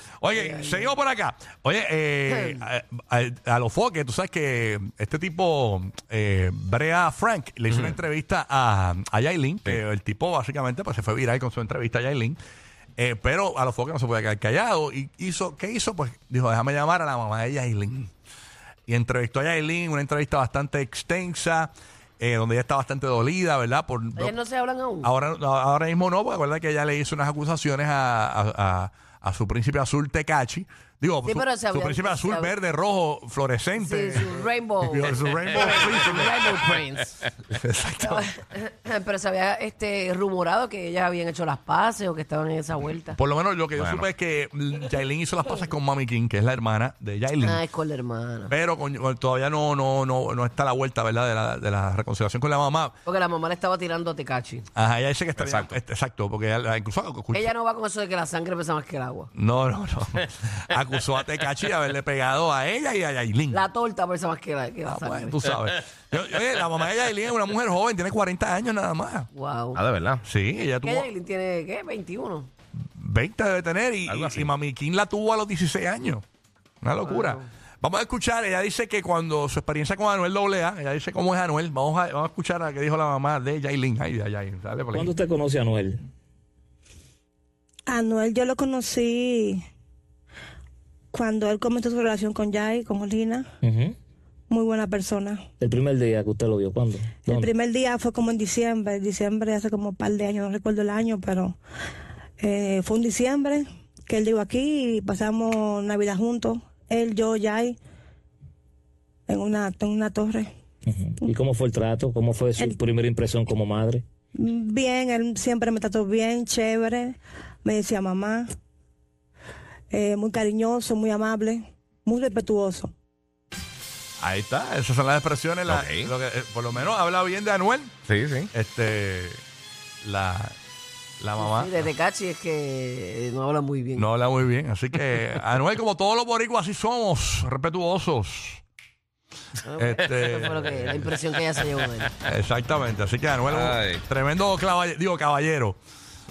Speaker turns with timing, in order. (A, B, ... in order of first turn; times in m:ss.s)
0:00.2-0:12.4 A
0:00.3-0:00.9 B
0:13.0-0:18.1 A
0:18.9-0:24.4 A
0:24.2-0:25.1 B
0:25.0-0:36.4 A
0:31.3-0:32.6 B
0:33.8-0:37.3 B
0:37.5-0:38.3 A
0:38.1-0:43.2 B
0:43.1-0:47.6 A
0:43.8-0:44.1 C
0:47.4-0:48.5 B
0:48.5-0:53.0 A
0:53.1-0:54.7 B
0:54.8-0:57.5 A
0:55.4-0:55.8 C
0:57.3-0:59.3 B
0:59.4-1:03.6 A
1:03.5-1:05.4 B
1:04.8-1:09.3 A
1:09.3-1:09.8 B
1:09.8-1:10.2 C
1:10.2-1:11.1 A
1:10.8-1:12.5 B
1:13.0-1:16.2 A
1:14.1-1:14.5 C
1:16.8-1:25.1 A
1:17.0-1:17.5 B
1:24.9-1:26.0 D
1:27.9-1:29.6 E
1:31.1-1:33.5 E
1:33.6-1:34.0 D
1:34.5-1:35.5 E
1:35.6-1:37.5 D
1:37.2-1:41.6 E
1:42.4-1:47.8 E
1:49.3-1:50.5 E
1:50.9-1:54.0 D
1:54.4-1:58.5 E
1:59.9-2:02.9 E
2:04.2-2:08.0 A
2:05.7-2:06.1 C
2:08.1-2:08.5 C
2:08.5-2:09.4 A
2:10.0-2:10.6 A
2:11.2-2:11.9 A
2:11.4-2:14.1 B
2:14.0-2:18.6 A
2:19.6-2:22.1 B
2:19.7-2:21.1 A
2:22.2-2:25.8 A
2:23.5-2:24.0 C